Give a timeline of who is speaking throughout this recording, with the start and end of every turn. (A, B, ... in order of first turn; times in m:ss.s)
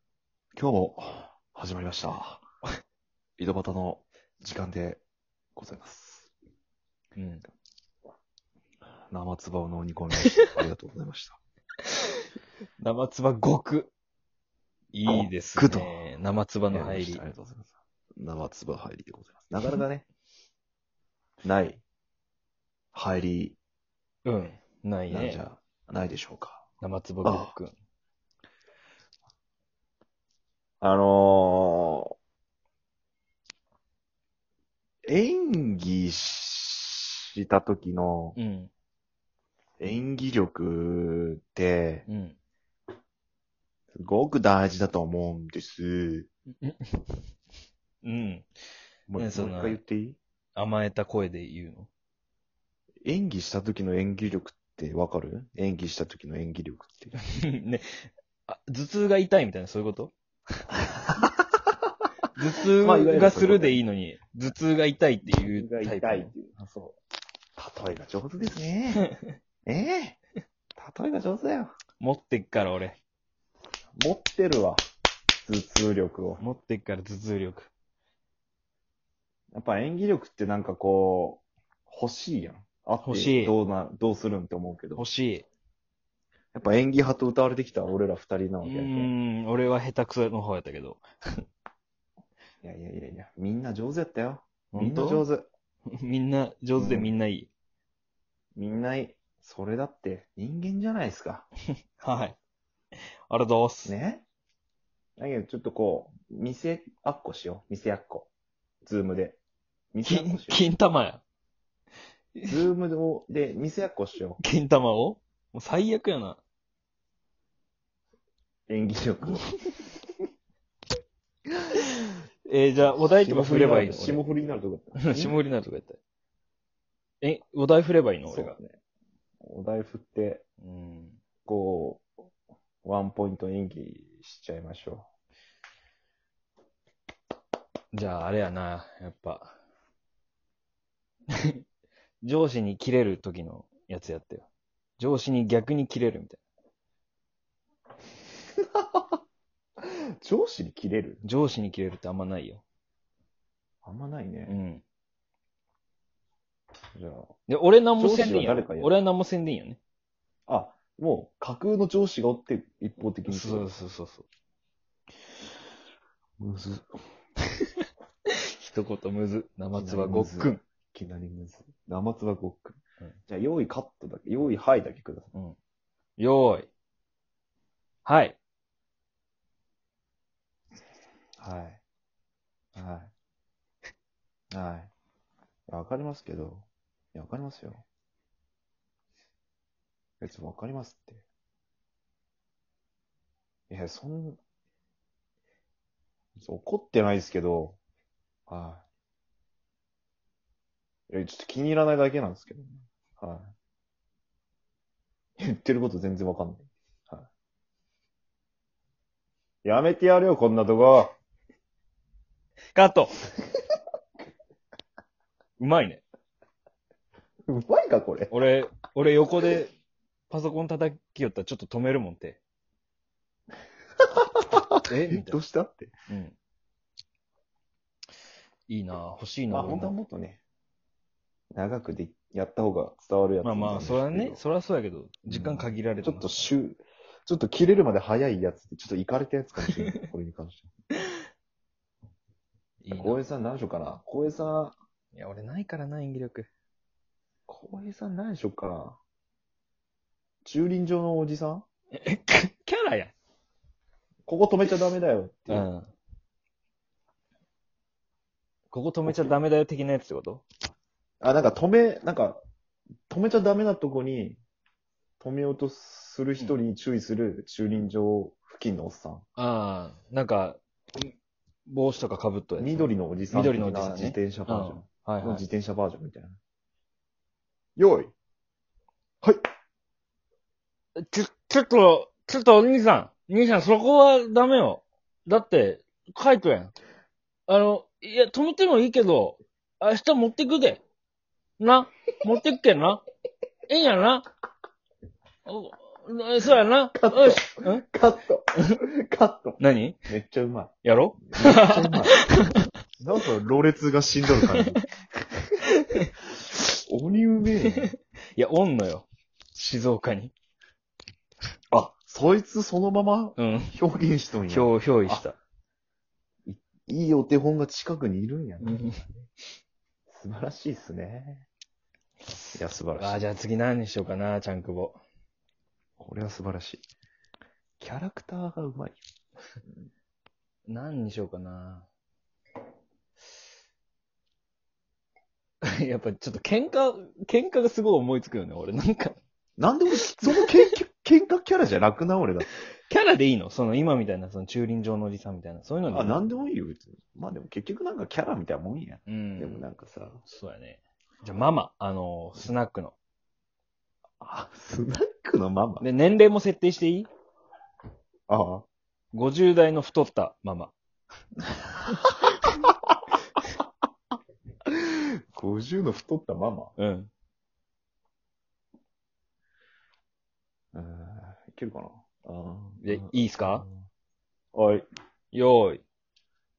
0:00.6-0:02.4 A
0:03.4-0:05.0 A
0:05.6-0:06.3 A
0:07.2-0:07.4 B
0:09.1-0:11.4 A
0:12.8-0:13.9 B
0:14.9-0:17.2 B
0:15.0-0:16.0 A
0:16.7-0:20.0 A
0:21.4-0:21.8 A
0:22.9-0:23.6 A
0:24.2-0:25.4 B
0:25.1-0:26.6 A
0:26.8-0:27.7 B
0:27.2-0:27.5 A
0:30.8-0:32.1 A
0:35.0-0:38.4 A
0:38.4-0:38.7 B
0:39.8-0:42.0 A
0:42.1-0:42.4 B
0:43.9-0:46.3 A
0:46.6-0:47.1 B
0:48.0-0:48.5 B
0:49.1-0:50.2 A
0:49.2-0:49.8 B
0:50.6-0:51.9 B
0:53.0-0:57.2 A
0:57.4-1:00.1 B
1:02.3-1:06.3 B
1:02.8-1:03.8 A
1:05.3-1:07.0 A
1:07.6-1:09.0 A
1:09.6-1:10.2 A
1:10.8-1:11.8 A
1:12.0-1:13.0 B
1:14.0-1:14.8 A
1:15.4-1:16.4 A
1:16.4-1:17.7 B
1:19.5-1:25.0 A
1:23.0-1:23.5 B
1:25.0-1:25.5 B
1:26.5-1:29.1 A
1:28.6-1:31.0 B
1:32.6-1:35.4 A
1:34.7-1:35.2 B
1:35.9-1:37.5 B
1:36.8-1:37.1 A
1:38.5-1:41.5 A
1:42.0-1:42.4 B
1:43.3-1:43.9 B
1:43.8-1:44.2 A
1:45.2-1:48.3 A
1:48.8-1:49.4 A
1:49.9-1:50.6 A
1:50.0-1:51.2 B
1:52.5-1:54.4 A
1:54.4-1:56.4 B
1:58.7-1:59.5 A
2:02.5-2:04.2 B
2:03.0-2:05.5 A
2:05.0-2:06.0 B
2:07.2-2:08.6 B
2:08.2-2:08.8 A
2:09.4-2:10.4 A
2:10.6-2:11.2 B
2:11.4-2:12.0 A
2:12.8-2:15.1 A
2:17.9-2:19.5 B
2:22.2-2:24.5 B
2:25.0-2:26.4 B
2:28.6-2:29.2 A
2:29.8-2:31.2 A
2:31.2-2:32.6 B
2:33.8-2:34.6 A
2:34.5-2:34.8 B
2:37.0-2:37.3 A
2:37.5-2:39.8 B
2:38.0-2:38.9 A
2:40.5-2:43.7 A
2:43.3-2:44.3 B
2:46.4-2:46.9 A
2:48.3-2:50.6 B
2:49.7-2:55.3 A
2:56.2-2:56.7 B
2:58.0-2:58.4 B
3:01.4-3:01.8 A
3:02.7-3:03.1 A
3:04.5-3:04.9 A
3:05.7-3:07.8 A
3:10.2-3:11.2 A
3:13.7-3:14.4 A
3:16.4-3:17.8 A
3:18.5-3:18.8 A
3:21.1-3:23.5 A
3:25.4-3:27.3 A
3:29.6-3:31.1 A
3:32.7-3:33.1 B
3:35.6-3:36.0 B
3:37.5-3:38.3 A
3:38.3-3:39.7 B
3:40.3-3:42.4 B
3:44.3-3:45.9 A
3:44.8-3:45.4 B
3:46.1-3:46.4 B
3:48.7-3:49.9 B
3:49.5-3:50.4 A
3:51.5-3:54.4 A
3:53.4-3:56.5 B
3:55.3-4:00.7 A
3:59.6-4:00.1 B
4:02.8-4:03.2 B
4:02.9-4:04.8 A
4:05.1-4:06.5 B
4:07.5-4:09.0 A
4:10.4-4:11.6 A
4:12.0-4:13.1 B
4:14.2-4:15.6 A
4:15.5-4:15.9 B
4:18.7-4:20.4 B
4:19.0-4:19.4 A
4:21.2-4:22.4 A
4:23.1-4:24.4 A
4:25.2-4:29.2 A
4:29.4-4:31.1 B
4:31.7-4:35.4 B
4:32.6-4:36.4 A
4:37.8-4:38.1 A
4:41.0-4:46.7 B
4:47.5-4:50.8 B
4:51.6-4:53.0 B
4:53.7-4:54.2 B
4:55.4-4:57.8 B
4:56.9-5:02.2 A
4:59.6-5:00.0 B
5:00.8-5:02.6 B
5:03.0-5:04.8 A
5:05.8-5:06.1 B
5:06.7-5:07.9 A
5:08.4-5:10.3 B
5:11.7-5:15.2 A
5:13.4-5:13.7 B
5:14.5-5:15.4 B
5:16.4-5:18.9 A
5:18.6-5:19.0 B
5:20.1-5:21.5 A
5:22.5-5:23.3 A
5:23.0-5:25.0 B
5:26.0-5:26.8 A
5:27.8-5:29.0 A
5:30.7-5:31.9 B
5:35.6-5:39.2 B
5:39.6-5:42.5 A
5:40.3-5:40.7 B
5:42.9-5:46.2 B
5:45.9-5:50.2 A
5:49.1-5:49.6 B
5:50.2-5:52.9 B
5:54.2-5:55.9 A
5:55.8-5:57.1 B
5:58.3-5:58.6 A
5:59.1-6:00.7 B
6:04.6-6:06.8 A
6:06.8-6:07.1 B
6:10.7-6:13.8 A
6:12.8-6:13.6 B
6:14.5-6:14.9 A
6:15.3-6:15.8 B